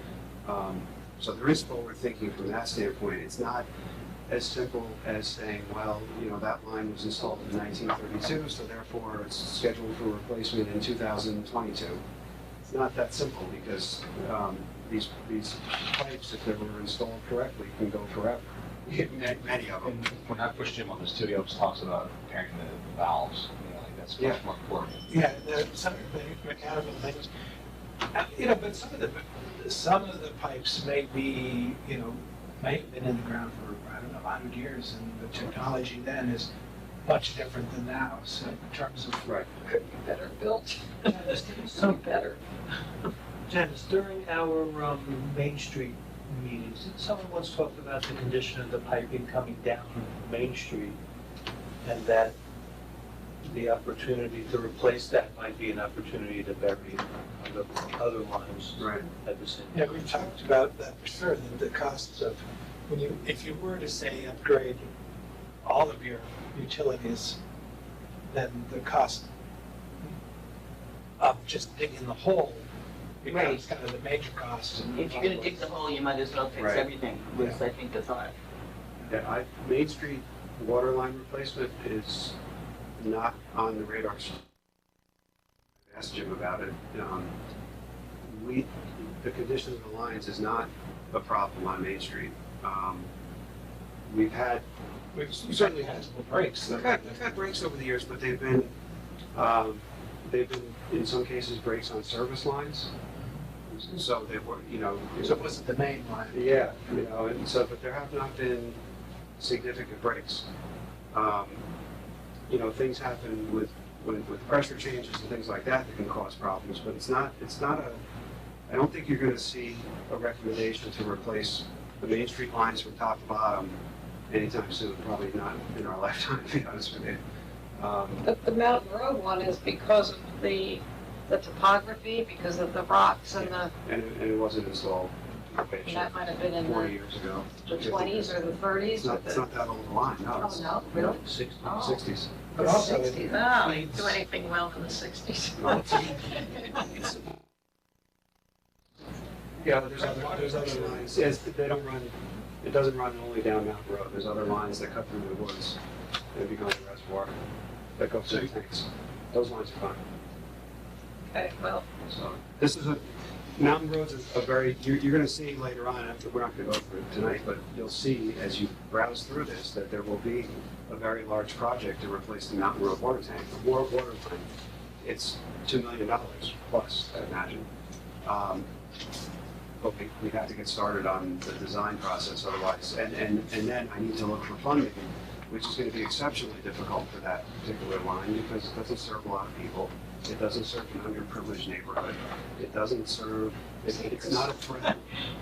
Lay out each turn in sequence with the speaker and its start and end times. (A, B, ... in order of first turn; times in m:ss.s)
0:00.4-0:03.6 A
0:04.3-0:12.0 A
0:12.6-0:20.0 A
0:19.8-0:25.1 B
0:25.1-0:27.3 C
0:28.1-0:36.5 C
0:37.0-0:39.4 C
0:39.2-0:39.5 A
0:39.7-0:42.4 D
0:41.1-0:42.2 E
0:41.1-0:41.4 C
0:43.5-0:51.0 E
0:51.8-0:52.4 E
0:53.4-1:00.1 E
0:58.8-0:59.1 A
0:59.7-1:04.9 C
1:05.6-1:07.4 C
1:08.3-1:09.3 C
1:11.2-1:12.7 C
1:13.2-1:15.7 C
1:13.3-1:13.6 F
1:14.9-1:18.3 F
1:16.6-1:17.6 A
1:19.0-1:22.4 A
1:23.0-1:24.5 A
1:25.8-1:27.3 A
1:28.2-1:33.1 A
1:34.1-1:34.6 A
1:35.1-1:37.3 C
1:35.3-1:36.0 A
1:36.6-1:38.7 A
1:39.3-1:42.9 A
1:43.7-1:45.5 A
1:45.2-1:46.4 C
1:46.3-1:48.8 A
1:49.4-1:50.5 A
1:51.1-1:51.6 A
1:52.5-1:58.0 A
1:58.7-2:03.8 A
2:04.3-2:07.2 A
2:07.8-2:08.3 A
2:08.2-2:13.7 D
2:13.4-2:20.8 A
2:15.8-2:17.0 D
2:17.6-2:19.5 D
2:20.4-2:22.0 D
2:21.0-2:22.0 E
2:21.7-2:22.4 A
2:22.5-2:24.2 C
2:22.5-2:26.9 D
2:25.6-2:26.2 A
2:29.6-2:35.8 A
2:30.2-2:30.9 C
2:36.3-2:37.3 A
2:38.0-2:40.0 A
2:41.3-2:41.8 D
2:42.1-2:43.0 A
2:43.6-2:54.5 A
2:55.0-2:57.7 A
2:58.2-2:58.7 A
2:59.8-3:15.0 A
3:13.9-3:14.6 D